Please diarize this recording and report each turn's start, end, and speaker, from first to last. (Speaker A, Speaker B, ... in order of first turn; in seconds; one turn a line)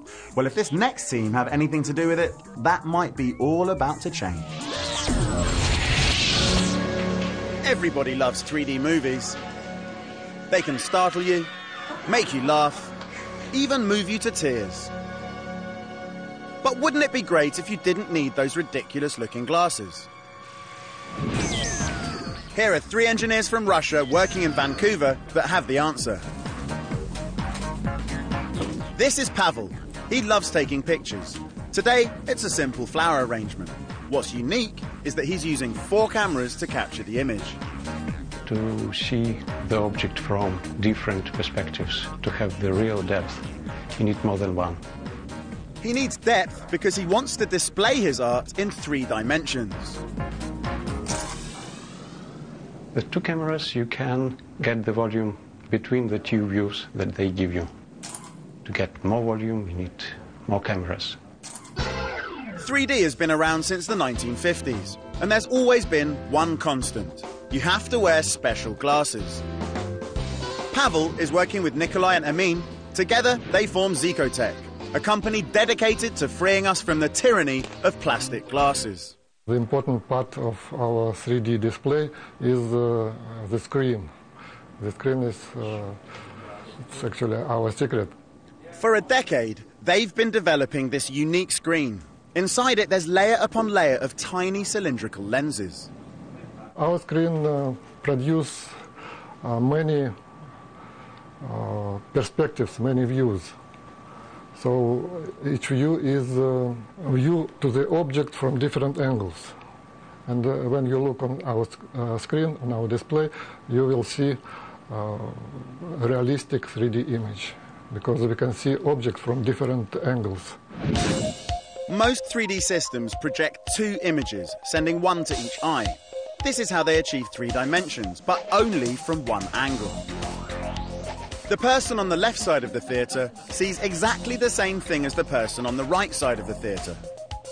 Speaker A: 0.3-4.6
Speaker A: 7.6-9.4
Speaker A: 10.5-11.5
Speaker A: 12.1-12.9
Speaker A: 13.5-14.9
Speaker A: 16.6-20.1
Speaker A: 22.5-26.2
Speaker A: 28.9-37.6
Speaker B: 38.4-43.4
Speaker B: 44.0-44.8
Speaker A: 45.8-50.0
Speaker B: 52.9-57.7
Speaker B: 58.6-61.2
Speaker A: 62.6-69.4
Speaker A: 70.7-79.1
Speaker C: 79.5-84.1
Speaker C: 84.8-86.0
Speaker C: 86.8-88.1
Speaker A: 88.8-95.9
Speaker C: 96.8-98.7
Speaker C: 99.4-100.1
Speaker C: 101.4-103.5
Speaker C: 104.5-109.5
Speaker C: 110.2-120.6
Speaker A: 121.9-130.1
Speaker A: 131.5-137.0